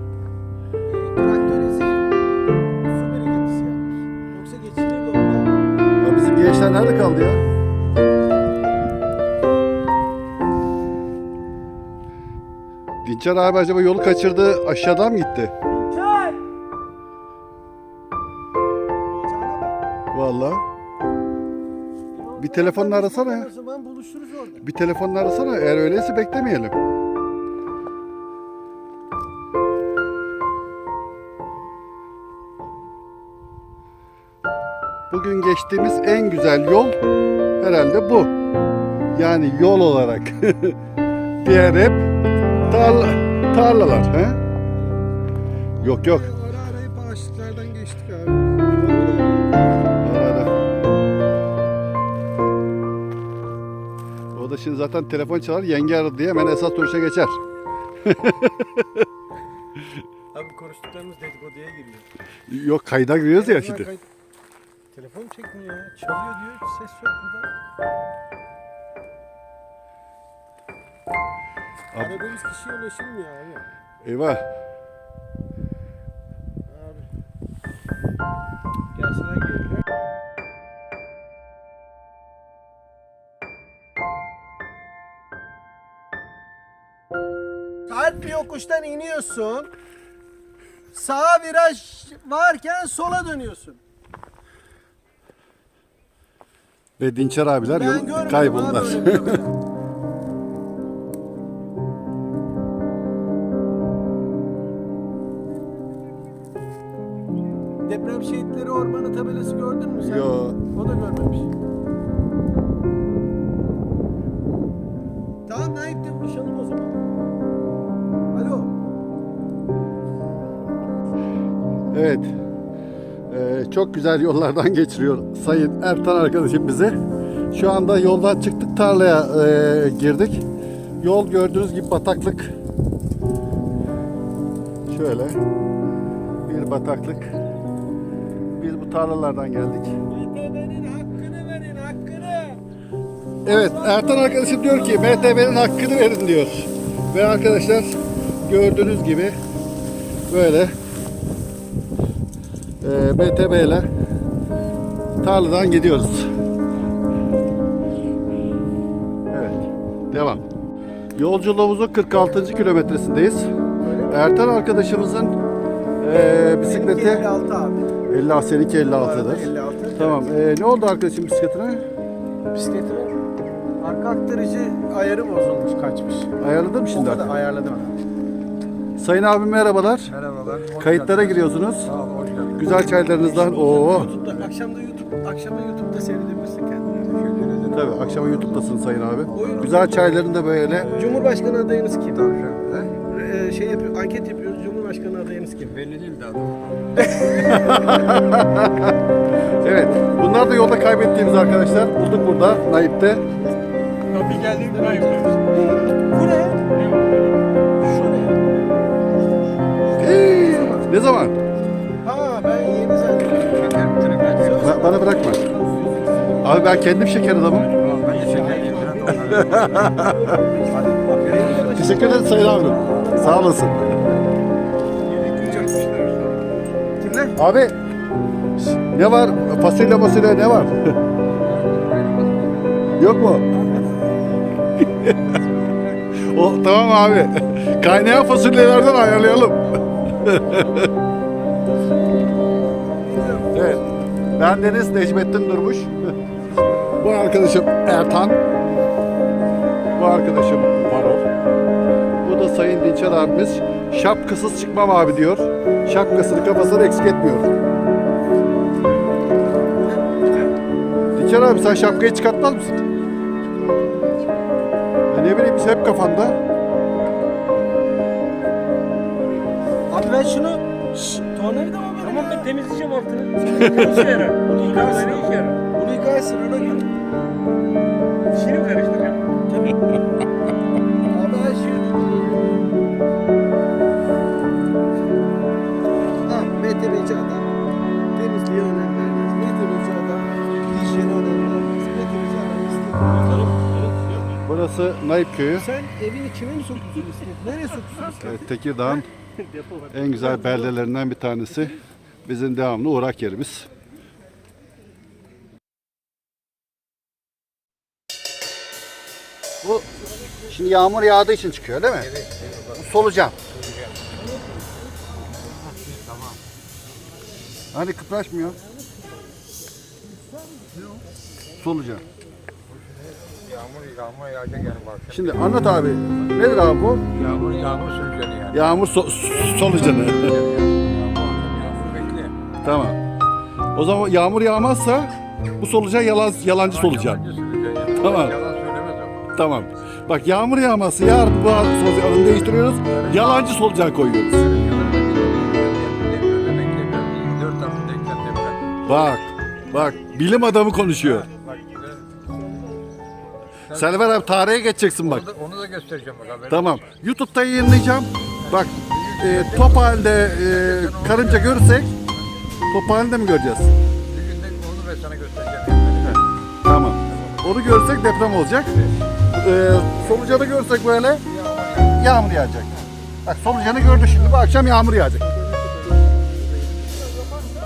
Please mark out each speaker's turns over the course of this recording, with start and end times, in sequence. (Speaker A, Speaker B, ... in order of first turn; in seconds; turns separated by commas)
Speaker A: 0.9-5.5, Speaker B: 6.0-7.4, Speaker B: 13.0-15.5, Speaker A: 15.7-16.4, Speaker A: 19.1-19.8, Speaker B: 20.1-20.6, Speaker A: 22.1-24.7, Speaker B: 22.4-23.5, Speaker B: 24.6-26.8, Speaker B: 35.1-37.0, Speaker B: 37.6-38.3, Speaker B: 39.1-40.8, Speaker B: 41.4-42.1, Speaker A: 42.5-43.1, Speaker B: 42.7-44.4, Speaker A: 44.7-45.1, Speaker A: 45.8-49.8, Speaker B: 45.8-46.3, Speaker B: 50.0-50.5, Speaker B: 54.3-57.4, Speaker B: 58.0-59.1, Speaker A: 60.3-62.1, Speaker B: 62.5-63.9, Speaker A: 63.3-64.0, Speaker A: 64.9-67.5, Speaker B: 71.9-72.2, Speaker A: 71.9-73.7, Speaker B: 74.0-74.4, Speaker A: 76.7-77.1, Speaker A: 79.0-79.8, Speaker A: 87.9-89.7, Speaker A: 90.9-93.8, Speaker B: 97.0-99.4, Speaker A: 97.7-99.5, Speaker A: 107.8-111.5, Speaker B: 110.0-110.6, Speaker A: 115.5-117.0, Speaker A: 118.3-118.8, Speaker B: 121.9-122.3, Speaker B: 123.3-127.0, Speaker B: 127.5-130.4, Speaker B: 131.0-132.5, Speaker B: 134.9-135.4, Speaker B: 136.5-137.3, Speaker B: 138.6-139.9, Speaker A: 140.1-142.6, Speaker A: 143.4-145.6, Speaker B: 143.4-149.4, Speaker B: 150.3-150.7, Speaker B: 152.8-153.9, Speaker B: 155.2-156.3, Speaker B: 159.3-160.4, Speaker B: 161.2-163.5, Speaker A: 163.8-164.3, Speaker B: 164.1-165.3, Speaker B: 166.0-167.3, Speaker A: 166.6-167.8, Speaker B: 168.1-171.8, Speaker A: 168.8-170.3, Speaker A: 172.5-173.2, Speaker A: 173.8-176.3, Speaker B: 176.4-177.3, Speaker A: 176.9-178.0, Speaker B: 179.0-180.1, Speaker C: 180.1-182.9, Speaker B: 180.8-181.9, Speaker B: 182.6-184.1, Speaker A: 183.1-187.1, Speaker C: 183.9-184.5, Speaker C: 187.1-188.7, Speaker B: 187.7-190.9, Speaker C: 189.3-191.3, Speaker A: 189.3-189.9, Speaker A: 190.9-192.2, Speaker C: 192.1-192.9, Speaker A: 193.1-195.7, Speaker C: 195.6-197.0, Speaker A: 197.1-197.9, Speaker B: 197.4-198.9, Speaker B: 199.6-203.2, Speaker D: 204.1-205.4, Speaker A: 204.5-206.7, Speaker D: 206.7-207.4, Speaker A: 207.8-208.4, Speaker A: 209.9-210.9, Speaker B: 210.0-211.3, Speaker A: 212.0-216.9, Speaker C: 213.4-214.8, Speaker B: 214.6-215.4, Speaker B: 216.4-217.7, Speaker C: 217.6-220.1, Speaker A: 217.8-224.1, Speaker B: 219.2-220.3, Speaker C: 221.3-221.9, Speaker B: 221.7-223.8, Speaker C: 222.5-223.2, Speaker D: 225.1-226.5, Speaker A: 225.2-225.8, Speaker A: 227.0-227.4, Speaker B: 227.4-227.7, Speaker A: 228.6-228.8, Speaker B: 228.9-230.8, Speaker C: 231.2-233.1, Speaker B: 233.0-233.4, Speaker A: 233.5-234.3, Speaker A: 235.2-236.2, Speaker B: 236.2-239.6, Speaker A: 239.6-240.7, Speaker B: 240.2-240.9, Speaker A: 242.9-243.9, Speaker B: 243.5-243.8, Speaker B: 244.4-246.1, Speaker B: 247.0-248.4, Speaker B: 249.9-251.3, Speaker B: 252.2-257.5, Speaker B: 261.2-262.9, Speaker A: 261.5-262.2, Speaker B: 265.1-266.4, Speaker A: 269.9-272.5, Speaker D: 272.0-275.6, Speaker B: 273.6-274.1, Speaker A: 273.6-276.9, Speaker D: 278.3-279.2, Speaker A: 279.5-279.9, Speaker A: 281.1-282.7, Speaker A: 286.2-287.5, Speaker A: 288.1-293.7, Speaker D: 293.3-294.2, Speaker B: 294.5-295.7, Speaker A: 295.5-300.7, Speaker B: 298.2-299.1, Speaker B: 299.9-303.7, Speaker B: 309.6-309.9, Speaker B: 310.5-312.1, Speaker C: 311.9-314.1, Speaker B: 312.8-313.4, Speaker C: 315.7-316.4, Speaker B: 317.7-318.6, Speaker B: 321.6-322.0, Speaker C: 322.7-325.7, Speaker B: 325.1-327.1, Speaker C: 327.1-328.8, Speaker B: 328.5-330.4, Speaker C: 329.5-332.3, Speaker B: 332.6-333.0, Speaker B: 333.8-337.2, Speaker C: 336.6-339.6, Speaker B: 338.0-338.4, Speaker B: 339.4-344.4, Speaker C: 342.9-343.6, Speaker C: 344.3-348.8, Speaker B: 348.9-351.3, Speaker C: 351.0-352.2, Speaker C: 353.7-354.3, Speaker B: 353.7-355.3, Speaker C: 355.0-356.9, Speaker B: 356.5-361.9, Speaker C: 358.4-362.1, Speaker B: 362.7-363.7, Speaker C: 364.1-366.2, Speaker B: 366.0-368.7, Speaker C: 367.1-367.5, Speaker C: 368.7-368.9, Speaker B: 369.3-371.2, Speaker C: 371.3-372.2, Speaker B: 371.9-372.7, Speaker B: 373.2-375.2